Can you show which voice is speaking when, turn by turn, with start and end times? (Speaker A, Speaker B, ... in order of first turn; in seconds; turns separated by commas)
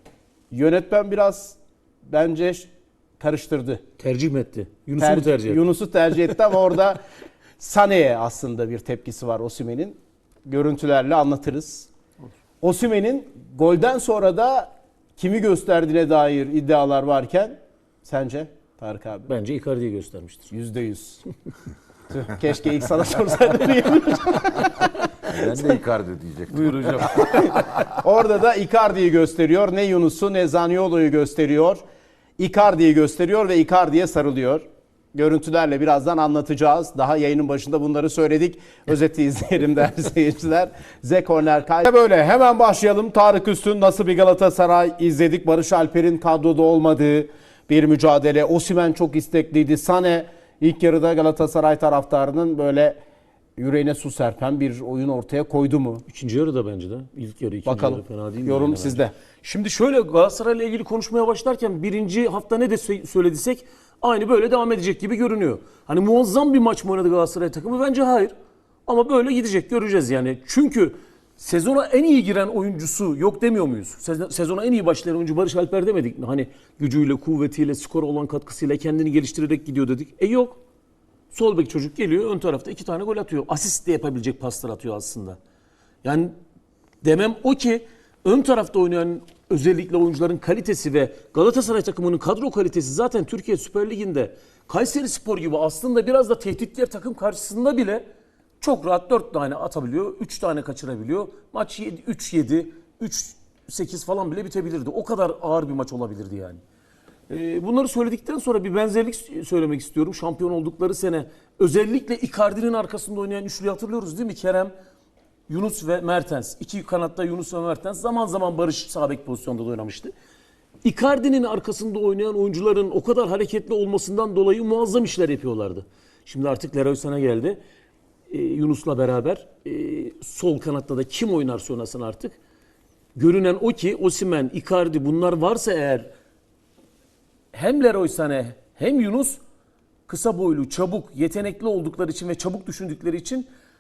Speaker A: 0.5-3.8, Speaker B: 4.0-5.7, Speaker A: 5.0-7.0, Speaker A: 7.6-11.9, Speaker A: 12.6-19.3, Speaker B: 19.3-20.5, Speaker A: 20.5-21.2, Speaker A: 22.1-25.3, Speaker C: 25.3-27.8, Speaker B: 26.5-27.8, Speaker A: 28.0-31.8, Speaker A: 32.4-53.0, Speaker A: 53.6-56.0, Speaker B: 56.1-68.3, Speaker A: 57.7-59.1, Speaker B: 68.9-80.6, Speaker B: 81.3-85.4, Speaker B: 86.0-86.3, Speaker B: 87.0-98.0, Speaker B: 98.6-106.6, Speaker B: 107.3-114.7, Speaker B: 115.5-120.1, Speaker B: 120.8-127.6, Speaker B: 128.3-132.4, Speaker B: 133.2-136.1, Speaker B: 137.5-139.4, Speaker B: 140.1-143.5